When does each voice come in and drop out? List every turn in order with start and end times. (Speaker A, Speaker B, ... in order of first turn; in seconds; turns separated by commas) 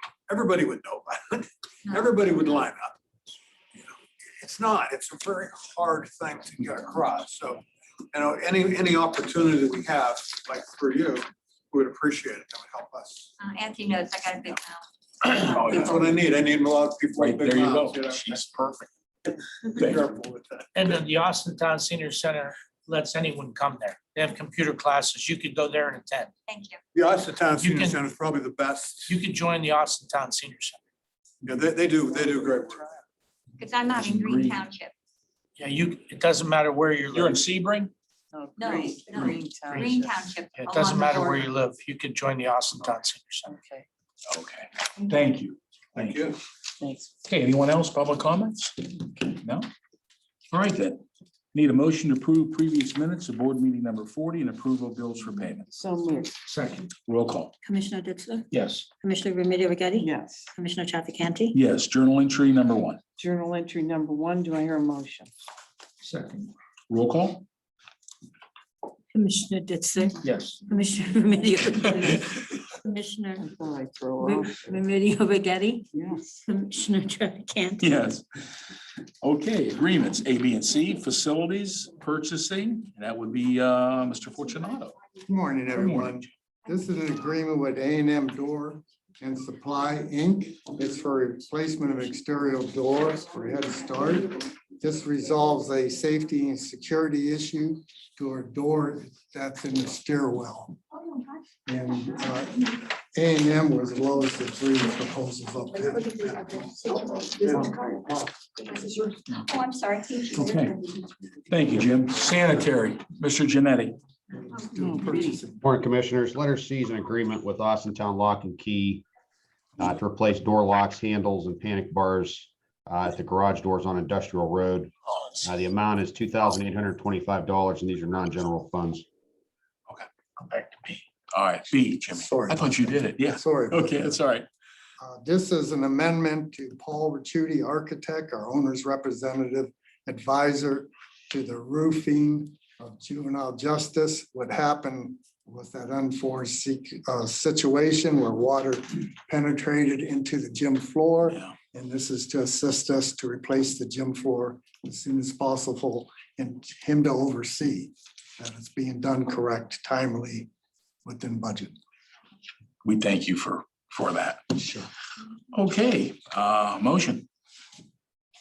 Speaker A: 0.3-3.0, Speaker B: 1.9-2.6, Speaker A: 3.8-13.3, Speaker B: 13.4-14.9, Speaker B: 15.4-15.9, Speaker C: 15.4-16.0, Speaker A: 15.5-18.4, Speaker C: 17.2-18.9, Speaker C: 19.8-20.0, Speaker A: 19.8-20.9, Speaker D: 20.8-26.3, Speaker B: 26.5-26.8, Speaker A: 26.9-29.1, Speaker D: 27.6-28.0, Speaker D: 29.1-30.8, Speaker A: 31.4-32.9, Speaker E: 32.0-33.0, Speaker B: 33.6-34.9, Speaker C: 33.9-34.6, Speaker D: 35.6-37.4, Speaker C: 37.1-37.9, Speaker E: 38.3-40.1, Speaker B: 38.6-41.5, Speaker D: 39.7-40.0, Speaker D: 40.5-43.5, Speaker E: 43.5-43.9, Speaker C: 44.3-46.3, Speaker A: 46.0-46.4, Speaker E: 46.8-47.2, Speaker C: 47.3-49.7, Speaker C: 50.5-51.0, Speaker C: 51.5-55.7, Speaker E: 55.7-56.4, Speaker D: 56.5-56.9, Speaker C: 57.0-57.5, Speaker F: 57.6-61.6, Speaker C: 58.5-58.9, Speaker E: 60.0-60.5, Speaker C: 61.5-63.0, Speaker E: 63.2-65.3, Speaker D: 66.1-66.4, Speaker C: 66.9-67.4, Speaker F: 69.1-73.5, Speaker C: 70.2-70.6, Speaker C: 71.8-72.2, Speaker E: 73.4-74.8, Speaker F: 74.2-75.9, Speaker E: 75.9-76.4, Speaker F: 76.5-77.9, Speaker C: 77.8-78.2, Speaker C: 79.2-85.0, Speaker G: 85.3-100.8, Speaker C: 85.8-86.2, Speaker G: 101.7-106.1, Speaker B: 106.2-111.0, Speaker C: 110.3-110.7, Speaker C: 111.5-114.0, Speaker G: 114.4-115.7, Speaker E: 114.8-115.5, Speaker H: 115.6-119.0, Speaker H: 119.8-124.9, Speaker H: 125.4-129.0, Speaker D: 130.5-131.0, Speaker C: 131.3-134.5, Speaker G: 132.1-134.2, Speaker G: 135.0-160.5, Speaker G: 161.1-161.8, Speaker C: 162.8-164.5, Speaker G: 164.6-164.9, Speaker C: 165.5-167.3